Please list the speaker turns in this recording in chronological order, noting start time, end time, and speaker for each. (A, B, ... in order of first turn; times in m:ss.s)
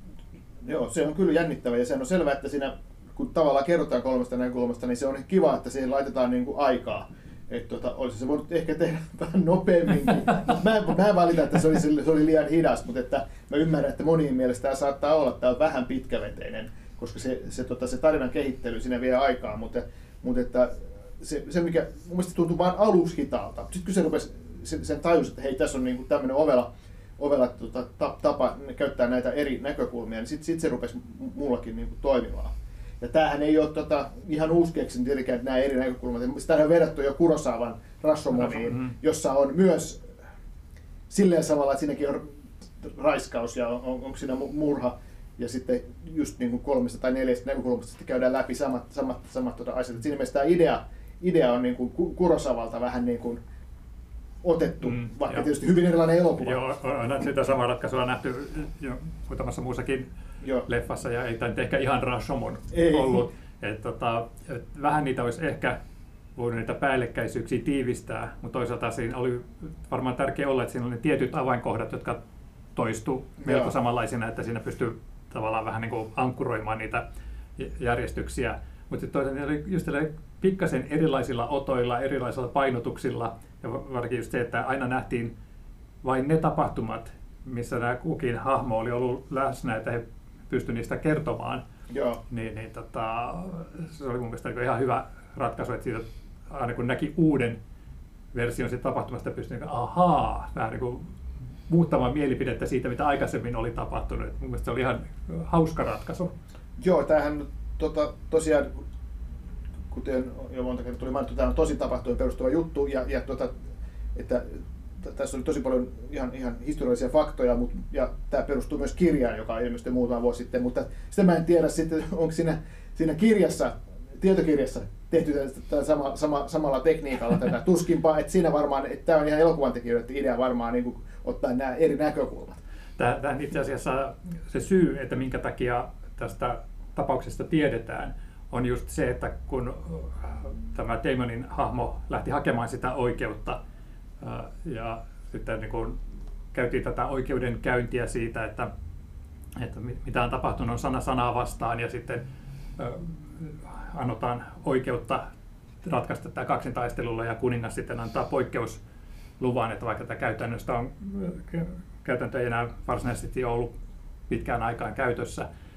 0:00.6-0:40.0 A
0:38.3-0:38.9 B
0:41.1-0:42.2 A
0:42.8-0:53.4 A
0:54.4-0:56.6 A
0:54.9-0:55.5 B
0:56.4-1:00.1 B
1:00.6-1:05.8 B
1:02.7-1:03.2 A
1:06.4-1:12.2 B
1:12.8-1:17.0 B
1:13.4-1:13.7 A
1:17.6-1:25.3 B
1:26.0-1:31.6 B
1:31.9-1:32.2 A
1:32.3-1:37.6 B
1:38.3-1:41.1 B
1:41.7-1:46.3 B
1:46.8-1:48.7 A
1:49.9-1:53.5 A
1:54.2-2:12.6 A
2:13.0-2:23.6 B
2:24.2-2:26.0 B
2:26.5-2:28.7 B
2:29.6-2:32.2 B
2:32.8-2:35.2 B
2:35.8-2:38.8 B
2:39.4-2:43.7 B
2:44.3-2:45.5 B